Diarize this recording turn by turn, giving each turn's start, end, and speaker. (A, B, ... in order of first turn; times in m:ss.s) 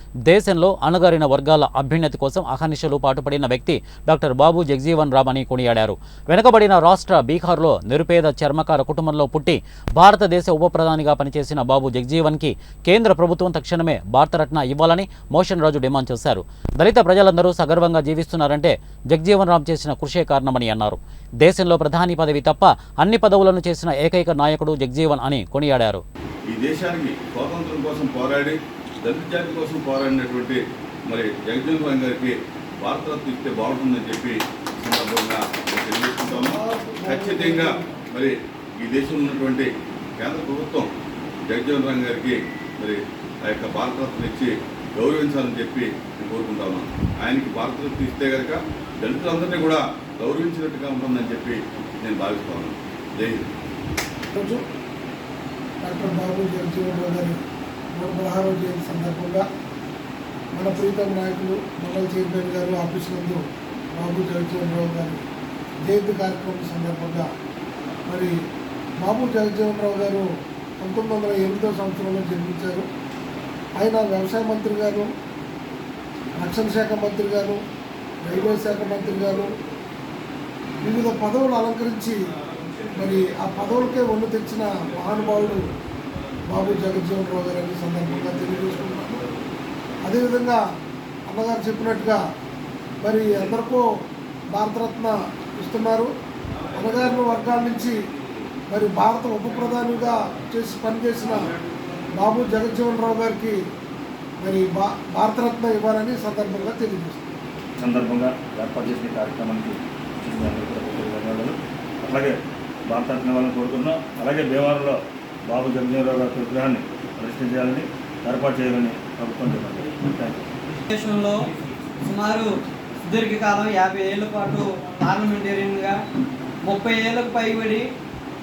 0:00.3-0:26.0 A
0:26.5-0:40.9 B
0:36.3-0:37.9 C
0:41.5-0:53.5 B
0:54.4-0:54.6 C
0:55.8-0:57.4 C
0:58.0-0:59.4 C
1:00.5-1:03.4 C
1:04.0-1:05.2 C
1:05.9-1:07.3 C
1:08.1-1:08.4 C
1:09.0-1:10.3 C
1:10.8-1:12.9 C
1:13.8-1:15.1 C
1:16.4-1:17.6 C
1:18.2-1:19.5 C
1:20.8-1:22.2 C
1:22.9-1:25.7 C
1:26.5-1:29.2 C
1:30.0-1:30.6 C
1:31.3-1:32.2 C
1:33.0-1:33.8 C
1:34.5-1:36.1 C
1:36.7-1:38.0 C
1:38.7-1:41.6 C
1:42.1-1:43.6 C
1:44.4-1:47.3 C
1:47.8-2:00.6 D
2:00.9-2:06.0 E
2:06.6-2:07.9 E